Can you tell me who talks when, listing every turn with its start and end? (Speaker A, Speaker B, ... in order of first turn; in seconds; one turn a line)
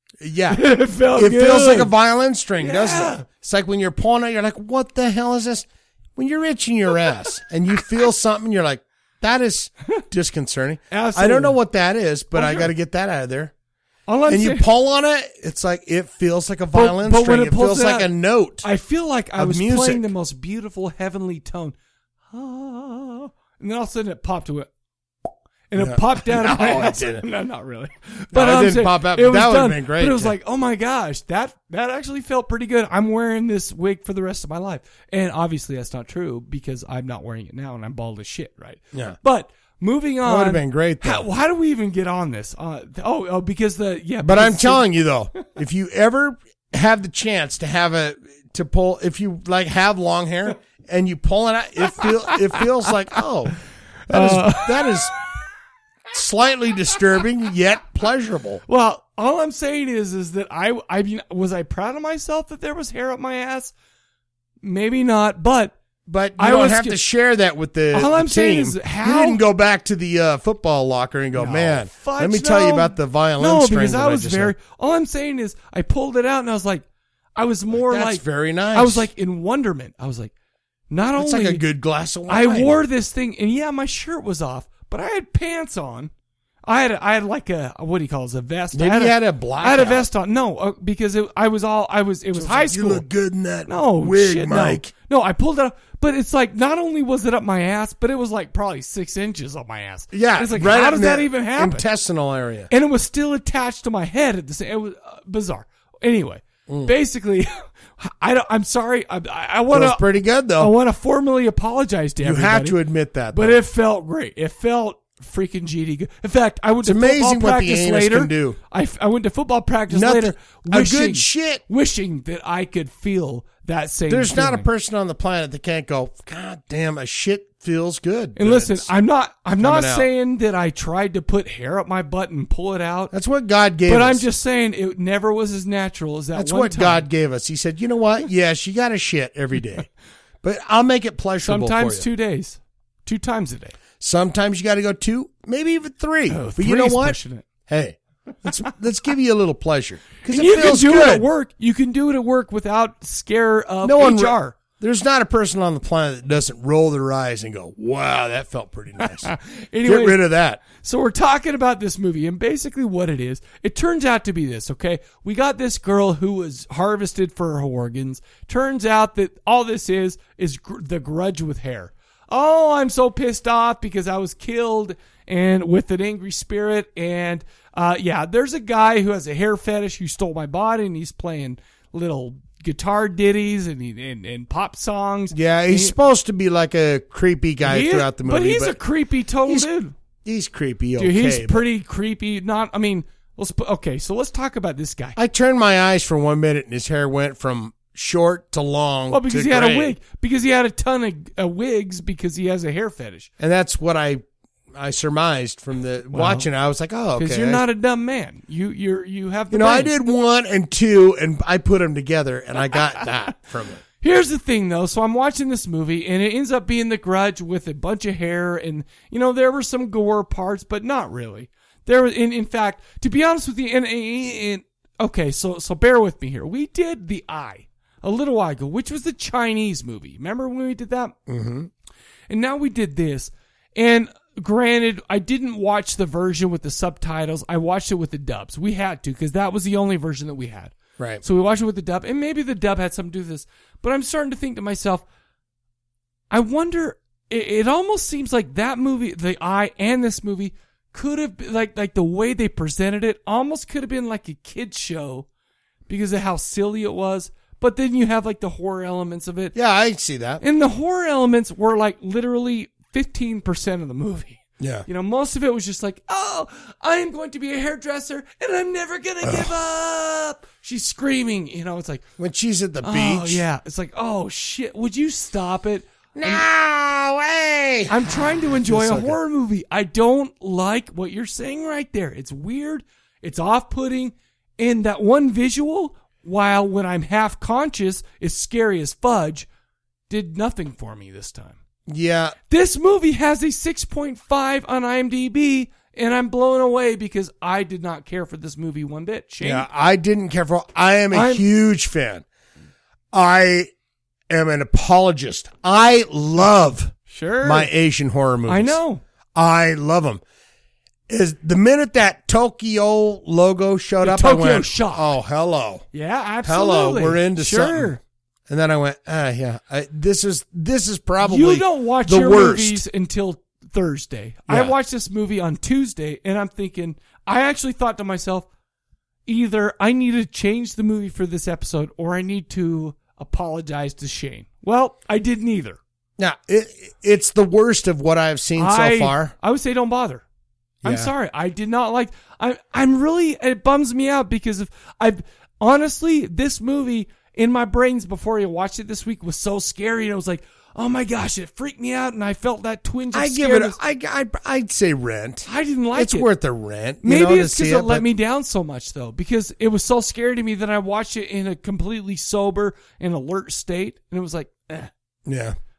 Speaker A: 0.2-13.5
Speaker B: 0.5-1.9
Speaker B: 2.6-3.2
Speaker B: 10.9-11.6
Speaker B: 12.3-12.7
Speaker B: 14.1-14.7
Speaker A: 14.2-18.7
Speaker B: 16.7-18.1
Speaker B: 18.6-21.7
Speaker A: 19.4-20.1
Speaker B: 22.3-24.7
Speaker B: 25.7-44.8
Speaker A: 25.8-27.2
Speaker A: 28.3-30.3
Speaker A: 40.2-41.3
Speaker A: 44.2-53.6
Speaker B: 51.9-53.2
Speaker B: 54.1-55.0
Speaker A: 54.1-55.1
Speaker A: 56.1-58.6
Speaker B: 58.7-63.7
Speaker B: 64.6-65.7
Speaker A: 66.1-74.5
Speaker B: 66.4-67.0
Speaker B: 67.9-69.4
Speaker B: 71.3-80.3
Speaker A: 77.7-79.1
Speaker B: 80.9-81.6
Speaker A: 81.2-82.8
Speaker B: 82.3-86.1
Speaker B: 86.6-93.0
Speaker A: 88.7-90.1
Speaker A: 92.3-94.9
Speaker B: 93.7-101.8
Speaker A: 100.1-102.7
Speaker B: 102.7-112.8
Speaker A: 106.7-106.9
Speaker A: 109.7-110.7
Speaker A: 112.2-113.6
Speaker B: 113.3-124.7
Speaker A: 116.8-118.6
Speaker A: 119.9-121.6
Speaker A: 124.1-128.9
Speaker B: 128.3-133.1
Speaker A: 129.6-130.1
Speaker A: 133.1-134.2
Speaker B: 133.8-137.1
Speaker A: 136.3-139.9
Speaker A: 140.4-142.1
Speaker B: 141.4-143.8
Speaker A: 144.0-151.3
Speaker B: 146.3-147.4
Speaker B: 150.2-154.5
Speaker A: 153.8-160.6
Speaker B: 159.0-185.9
Speaker A: 185.3-188.8
Speaker B: 187.6-189.9
Speaker A: 190.2-191.6
Speaker B: 191.0-195.2
Speaker A: 195.2-200.0
Speaker B: 199.1-203.3
Speaker A: 203.4-207.6
Speaker B: 206.1-206.5
Speaker B: 207.1-209.9
Speaker A: 209.5-213.8
Speaker B: 214.0-231.2
Speaker A: 231.3-231.7
Speaker B: 232.3-245.0
Speaker A: 241.0-241.2
Speaker B: 246.3-255.3
Speaker B: 255.9-259.6
Speaker A: 259.5-260.4
Speaker B: 260.4-272.1
Speaker A: 264.6-264.9
Speaker A: 269.2-269.5
Speaker A: 272.2-273.4
Speaker B: 272.8-276.4
Speaker A: 276.1-278.1
Speaker B: 277.9-289.5
Speaker A: 278.6-279.2
Speaker B: 290.1-291.6
Speaker A: 291.9-292.4
Speaker B: 292.5-299.6
Speaker A: 299.4-302.2
Speaker B: 301.1-301.4
Speaker A: 303.1-303.7
Speaker A: 304.3-308.8
Speaker B: 307.1-307.7
Speaker B: 308.5-309.0
Speaker A: 309.3-310.2
Speaker A: 311.1-315.9
Speaker B: 314.0-315.1
Speaker B: 315.9-318.0
Speaker A: 316.4-322.8
Speaker B: 321.2-328.5
Speaker A: 324.5-324.7
Speaker B: 329.2-335.8
Speaker A: 336.2-339.3
Speaker B: 338.6-340.2
Speaker A: 340.8-341.1
Speaker B: 340.8-353.8
Speaker A: 353.1-358.0
Speaker B: 355.4-356.3
Speaker B: 357.0-364.9
Speaker A: 365.2-365.6